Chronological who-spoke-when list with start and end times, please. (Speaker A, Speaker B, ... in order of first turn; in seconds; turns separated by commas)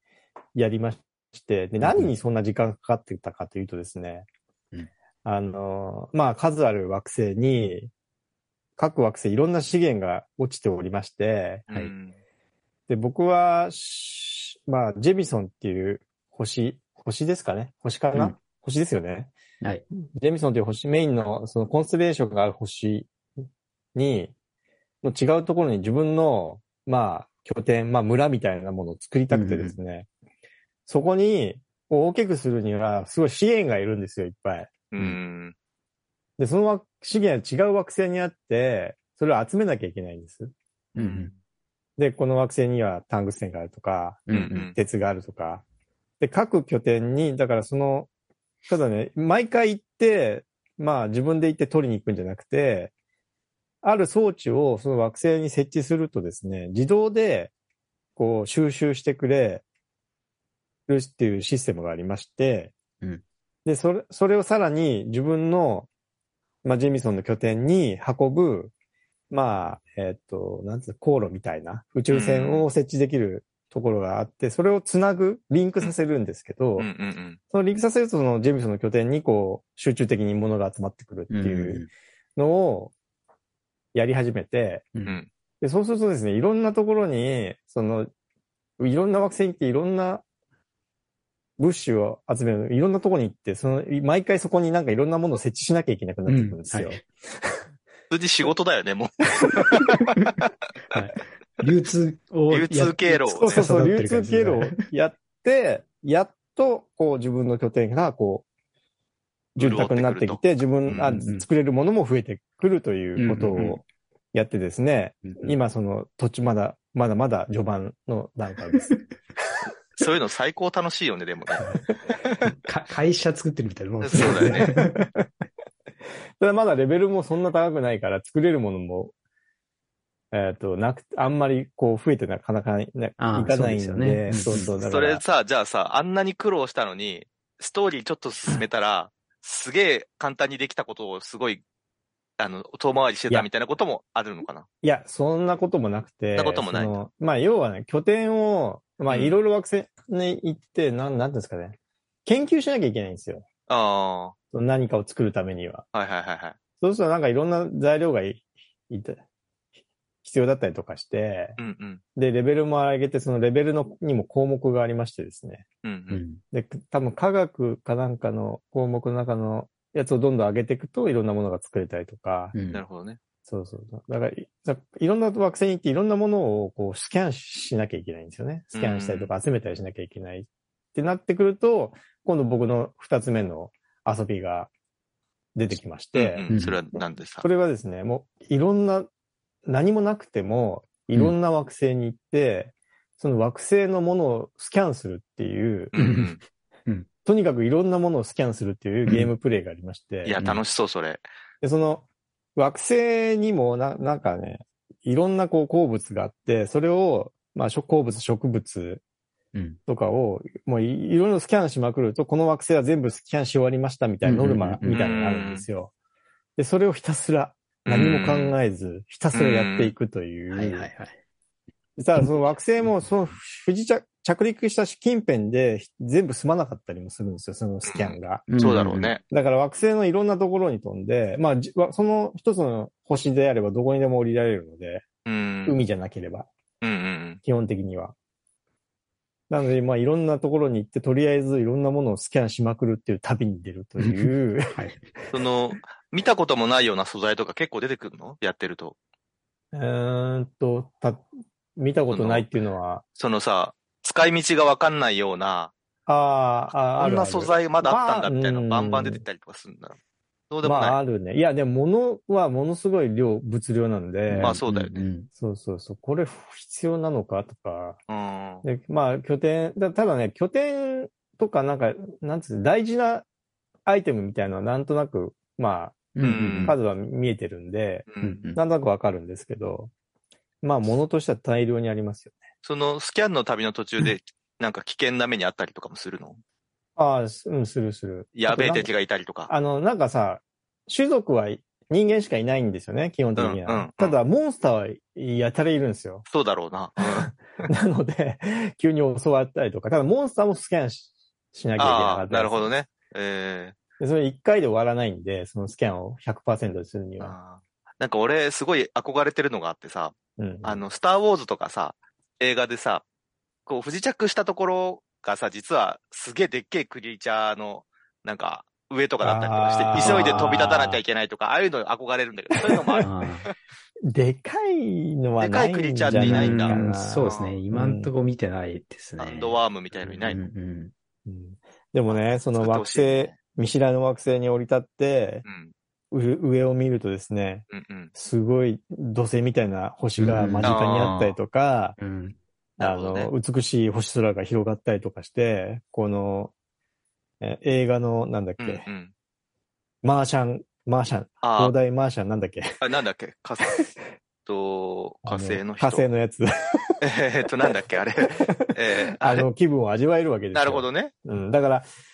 Speaker A: 0.5-4.3, Speaker B: 1.8-2.1, Speaker A: 5.2-7.9, Speaker A: 8.8-11.7, Speaker C: 11.7-12.2, Speaker A: 12.9-19.3, Speaker A: 20.1-23.1, Speaker A: 23.9-24.3, Speaker A: 25.0-30.1, Speaker B: 29.3-29.7, Speaker A: 30.9-34.8, Speaker C: 34.9-35.5, Speaker A: 36.4-40.5, Speaker B: 41.0-41.3, Speaker C: 41.0-41.3, Speaker A: 42.0-45.6, Speaker B: 44.3-44.7, Speaker C: 44.3-44.7, Speaker A: 46.2-48.1, Speaker A: 48.7-52.9, Speaker A: 53.8-57.5, Speaker A: 58.1-59.6, Speaker A: 60.9-62.7, Speaker A: 63.6-65.9, Speaker A: 66.6-68.7, Speaker A: 69.3-76.9, Speaker C: 72.1-72.7, Speaker C: 76.8-77.4, Speaker A: 77.5-81.8, Speaker B: 81.3-81.9, Speaker A: 82.3-82.9, Speaker A: 83.9-84.9, Speaker A: 85.6-88.1, Speaker A: 88.8-90.2, Speaker A: 91.6-97.5, Speaker B: 96.2-97.0, Speaker C: 98.1-100.5, Speaker B: 100.0-100.3, Speaker B: 100.9-104.8, Speaker C: 102.5-103.7, Speaker A: 103.3-108.4, Speaker A: 109.5-119.0, Speaker C: 109.6-111.2, Speaker B: 110.9-111.5, Speaker B: 113.2-113.8, Speaker B: 115.2-115.5, Speaker C: 120.0-121.6, Speaker C: 122.2-122.5, Speaker B: 122.4-125.1, Speaker C: 124.0-124.7, Speaker A: 124.2-125.2, Speaker A: 126.4-129.1, Speaker A: 130.3-135.2, Speaker B: 133.2-134.7, Speaker C: 134.8-141.6, Speaker C: 142.4-144.7, Speaker A: 144.8-153.4, Speaker C: 146.3-147.0, Speaker C: 149.1-149.4, Speaker C: 153.7-154.3, Speaker A: 154.5-155.8, Speaker C: 155.9-156.6, Speaker A: 156.8-159.2, Speaker A: 160.2-161.6, Speaker C: 161.6-162.0, Speaker A: 162.2-165.7, Speaker C: 165.8-166.2, Speaker B: 166.1-166.4, Speaker A: 166.5-172.5, Speaker B: 172.5-172.8, Speaker C: 172.7-173.2, Speaker A: 173.4-184.7, Speaker C: 178.7-179.3, Speaker A: 185.5-186.5, Speaker C: 186.1-187.5, Speaker B: 186.5-186.8, Speaker A: 187.4-189.1, Speaker A: 189.6-195.9, Speaker C: 195.9-196.4, Speaker B: 196.0-197.1, Speaker A: 197.2-200.4, Speaker C: 200.2-201.2, Speaker A: 201.6-209.0, Speaker B: 209.5-209.8, Speaker A: 209.9-215.9, Speaker B: 214.2-215.0, Speaker C: 214.8-215.7, Speaker A: 216.6-220.9, Speaker C: 217.8-218.6, Speaker C: 219.3-219.9, Speaker B: 220.5-221.2, Speaker A: 222.0-228.6, Speaker B: 222.2-222.5, Speaker C: 227.8-229.2, Speaker B: 228.5-229.1, Speaker A: 229.2-235.1, Speaker C: 235.2-235.8, Speaker A: 235.7-236.5, Speaker C: 236.8-237.4, Speaker A: 237.4-238.1, Speaker A: 239.5-244.8, Speaker B: 244.0-245.0, Speaker C: 245.3-248.9, Speaker A: 249.7-253.0, Speaker C: 252.1-252.5, Speaker C: 253.2-255.7, Speaker A: 256.1-259.2, Speaker C: 256.8-260.0, Speaker C: 260.5-261.0, Speaker A: 260.6-264.6, Speaker B: 264.3-265.3, Speaker C: 264.4-265.1, Speaker A: 265.4-268.0, Speaker C: 268.1-268.6, Speaker A: 268.6-273.2, Speaker A: 273.9-276.1, Speaker B: 276.1-276.8, Speaker C: 276.2-276.8, Speaker A: 276.6-279.9, Speaker C: 278.1-278.4, Speaker B: 278.2-278.6, Speaker A: 280.6-282.4, Speaker C: 282.6-286.4, Speaker A: 286.9-288.9, Speaker C: 288.3-289.5, Speaker A: 289.5-296.2, Speaker C: 293.4-294.2, Speaker C: 296.3-297.7, Speaker A: 297.0-302.7, Speaker C: 301.8-303.8, Speaker A: 304.0-307.4, Speaker C: 307.2-313.0, Speaker A: 310.4-310.8, Speaker C: 313.6-323.5, Speaker A: 319.2-321.0, Speaker B: 319.9-320.5, Speaker A: 322.6-323.1, Speaker B: 323.0-323.5, Speaker A: 324.1-328.1, Speaker C: 325.4-327.6, Speaker B: 326.1-329.6, Speaker C: 329.2-330.4, Speaker B: 330.1-330.9, Speaker A: 331.2-335.4, Speaker C: 332.1-333.4, Speaker C: 335.4-335.7, Speaker A: 336.1-342.0, Speaker C: 337.7-338.1, Speaker B: 340.2-341.2, Speaker C: 340.6-341.4, Speaker B: 342.0-342.4, Speaker C: 342.8-343.3, Speaker A: 342.8-346.5, Speaker A: 347.4-348.9, Speaker C: 348.6-349.1, Speaker A: 350.0-352.8, Speaker C: 351.4-351.7, Speaker C: 352.8-353.8, Speaker C: 354.4-356.0, Speaker A: 355.3-357.0, Speaker C: 357.0-359.5, Speaker A: 358.2-361.9, Speaker C: 360.5-361.1